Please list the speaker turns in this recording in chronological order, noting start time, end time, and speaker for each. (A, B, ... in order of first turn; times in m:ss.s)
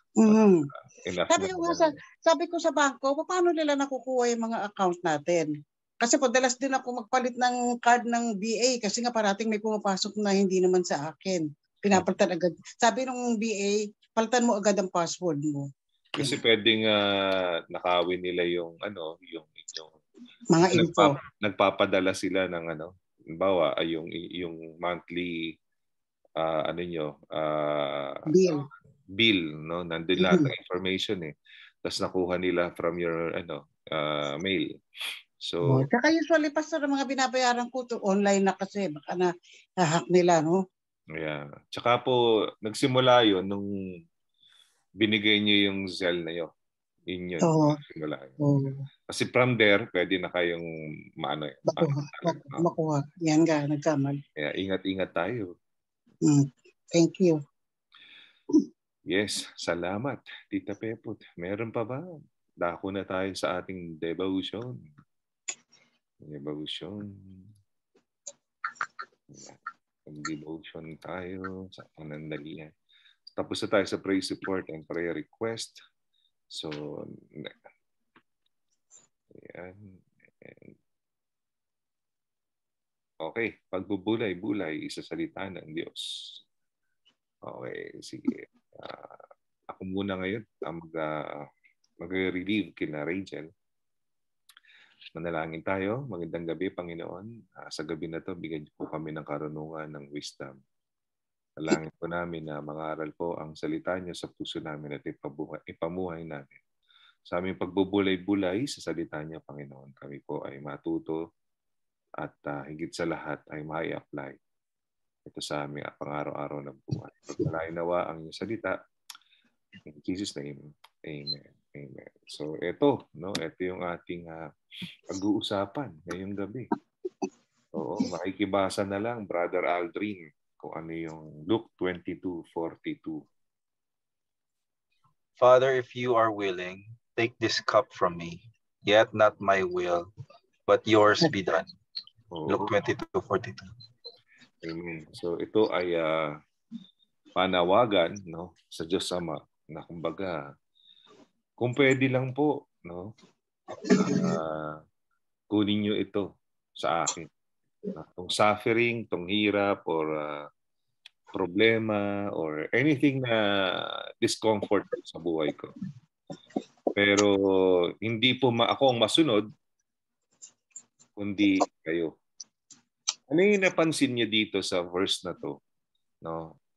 0:00.2-0:00.6 A
0:00.9-0:01.9 B
0:01.3-0:16.3 A
0:16.2-0:20.0 B
0:20.5-0:21.1 A
0:20.7-0:25.5 B
0:26.4-0:28.2 B
0:28.3-0:28.6 A
0:29.2-0:31.3 B
0:30.2-0:30.5 A
0:31.8-0:34.8 B
0:35.4-0:35.9 B
0:35.6-0:40.6 A
0:41.2-0:43.7 B
0:45.0-0:46.5 B
0:47.1-0:48.4 B
0:47.4-0:47.7 A
0:48.4-0:48.8 A
0:49.1-0:50.6 B
0:51.2-0:52.7 B
0:51.7-0:54.2 A
0:54.4-0:55.5 B
0:56.2-0:57.4 A
0:59.1-1:02.0 B
1:02.6-1:04.8 B
1:06.2-1:07.4 B
1:09.3-1:12.7 B
1:13.4-1:15.8 B
1:16.5-1:17.5 B
1:19.3-1:20.7 B
1:23.2-1:26.4 B
1:27.5-1:29.1 B
1:29.7-1:31.4 B
1:32.0-1:33.5 B
1:35.1-1:40.5 B
1:41.6-1:46.6 B
1:47.3-1:51.2 B
1:52.2-1:54.4 B
1:55.3-1:58.8 B
1:59.9-2:04.5 B
2:05.1-2:06.7 B
2:07.7-2:13.2 B
2:15.4-2:20.1 C
2:20.7-2:21.7 C
2:22.3-2:22.7 B
2:22.5-2:23.7 C
2:24.6-2:26.4 B
2:27.4-2:30.4 B
2:31.6-2:33.1 B
2:33.9-2:34.8 B
2:35.5-2:36.3 B
2:36.8-2:37.3 B
2:37.9-2:40.5 B
2:41.3-2:45.7 B
2:46.9-2:49.4 B
2:51.2-2:52.1 B
2:53.3-2:55.6 B
2:56.2-2:56.5 B